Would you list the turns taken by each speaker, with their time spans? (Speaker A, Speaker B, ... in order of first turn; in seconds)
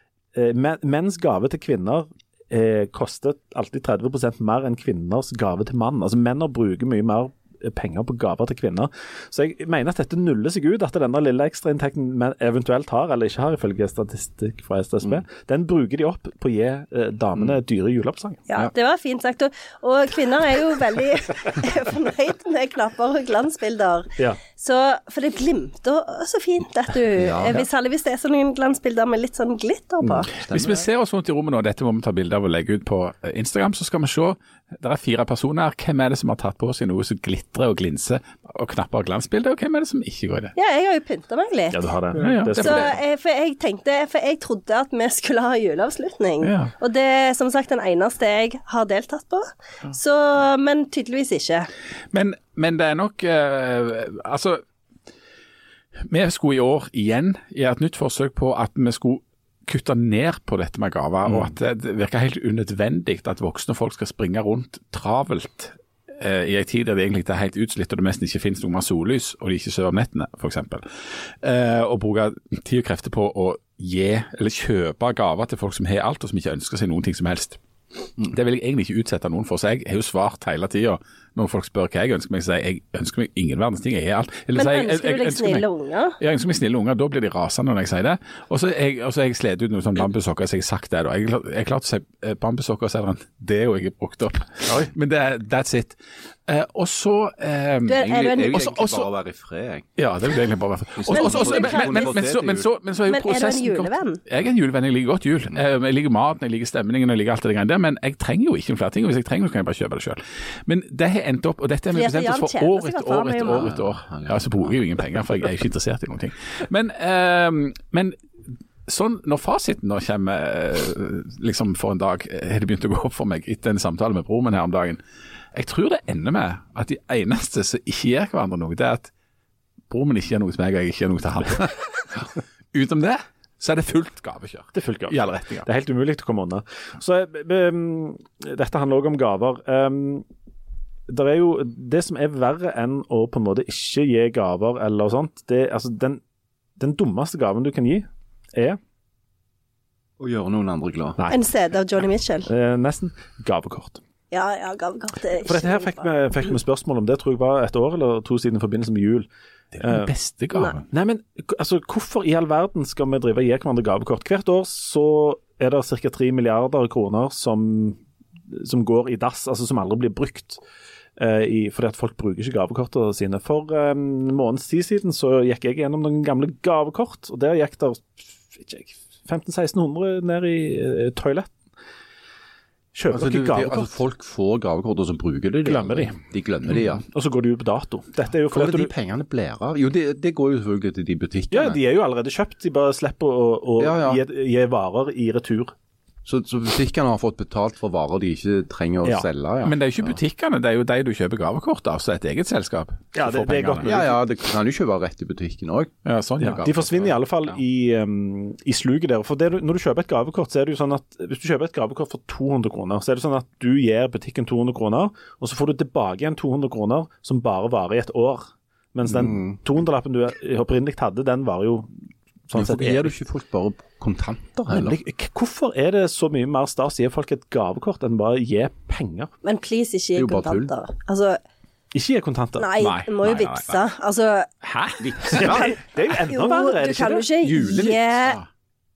Speaker A: 0.3-18.4, 41.7-43.0, 134.7-140.2, 141.1-146.2, 146.8-148.8, 151.2-151.4, 152.4-154.0, 155.4-160.1, 160.9-168.0, 168.5-170.6, 171.2-181.5, 182.9-183.9, 185.6-186.2, 186.7-188.9, 191.5-195.7, 203.1-204.2, 206.4-221.9, 222.5-223.1, 224.7-229.3, 231.9-232.7, 235.3-237.3
Speaker B: 18.5-30.3, 40.5-41.8, 42.5-51.7, 84.5-86.2, 97.9-98.6, 101.1-102.2, 103.1-104.2, 111.9-113.7, 151.3-152.5, 154.3-156.1, 229.4-231.4, 232.6-234.5, 235.3-238.4
Speaker C: 27.1-27.6, 30.4-30.8, 97.9-99.9, 101.0-102.7, 113.5-114.7, 150.2-151.2, 183.1-187.0, 188.5-191.8, 193.8-194.2, 196.2-200.2, 203.8-205.9, 219.2-219.5, 222.5-225.0, 230.1-230.7, 235.0-235.8, 237.5-238.0
Speaker D: 30.5-40.5, 42.2-42.9, 46.4-46.7, 52.1-54.6, 56.1-77.6, 78.2-85.6, 86.2-99.1, 100.0-118.2, 118.8-125.0, 125.5-129.1, 129.9-135.7, 159.7-160.8, 199.6-204.0, 206.0-207.2, 232.8-233.8, 234.7-234.9, 237.7-238.4